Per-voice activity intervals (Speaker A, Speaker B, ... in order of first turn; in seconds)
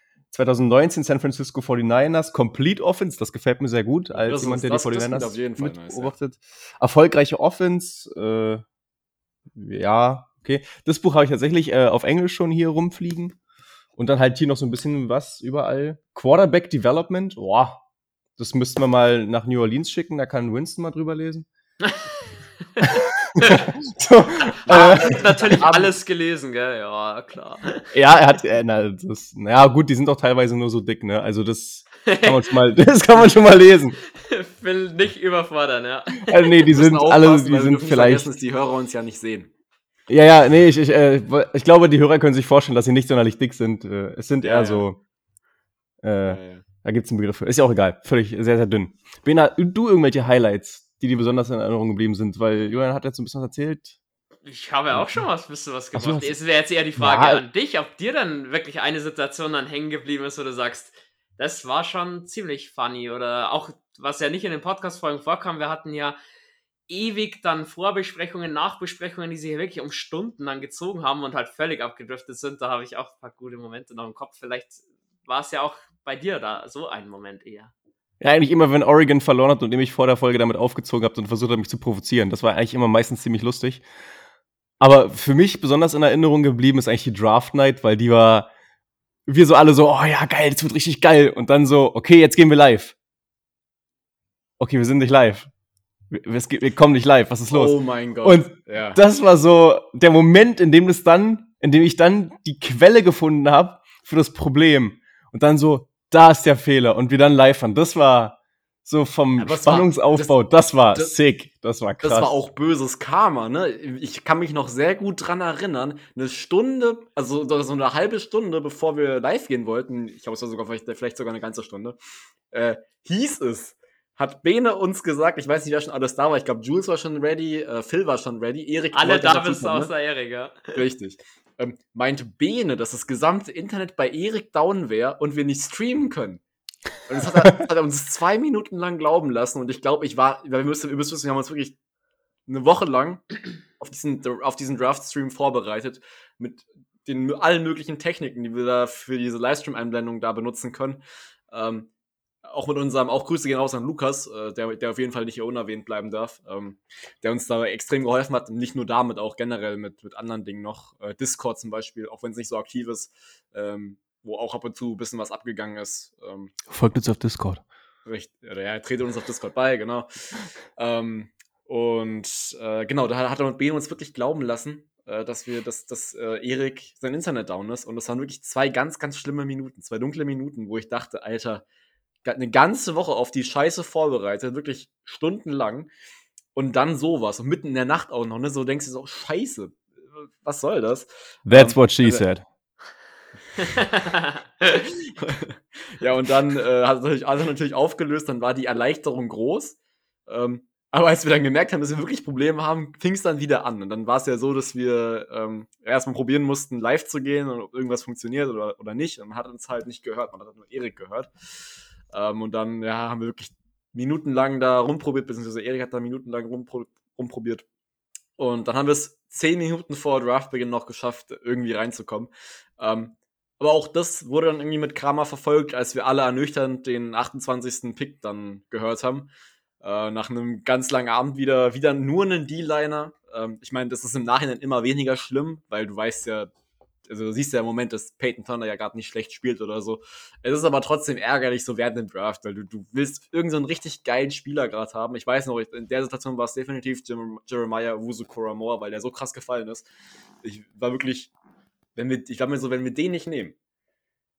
Speaker A: 0.3-8.6, 9.5-13.3, 13.9-17.8, 18.4-21.5, 22.8-25.9, 27.9-34.0, 36.2-38.3, 40.1-45.0, 46.0-54.0, 54.9-55.2, 55.9-56.4, 57.0-57.4, 78.2-83.8, 84.8-88.5, 89.2-92.9, 94.6-95.5, 96.1-112.3, 166.7-167.6, 191.5-192.4
Speaker B: 4.1-6.2, 24.7-25.6, 36.7-39.5, 44.4-44.9, 46.2-46.6, 97.5-99.0, 109.4-110.4, 112.0-122.0, 122.5-129.9, 130.7-136.4, 137.1-141.8, 142.5-151.9, 152.4-166.6, 168.1-170.1, 170.8-181.6, 182.2-185.9, 186.5-192.2, 194.7-211.3, 212.1-217.6, 218.4-229.3, 229.8-236.5, 237.1-249.8, 250.4-251.3, 251.9-253.6
Speaker C: 22.8-23.7, 24.6-27.9, 32.0-32.5, 34.1-36.5, 54.4-66.2, 66.9-77.7, 128.9-130.8, 193.6-194.4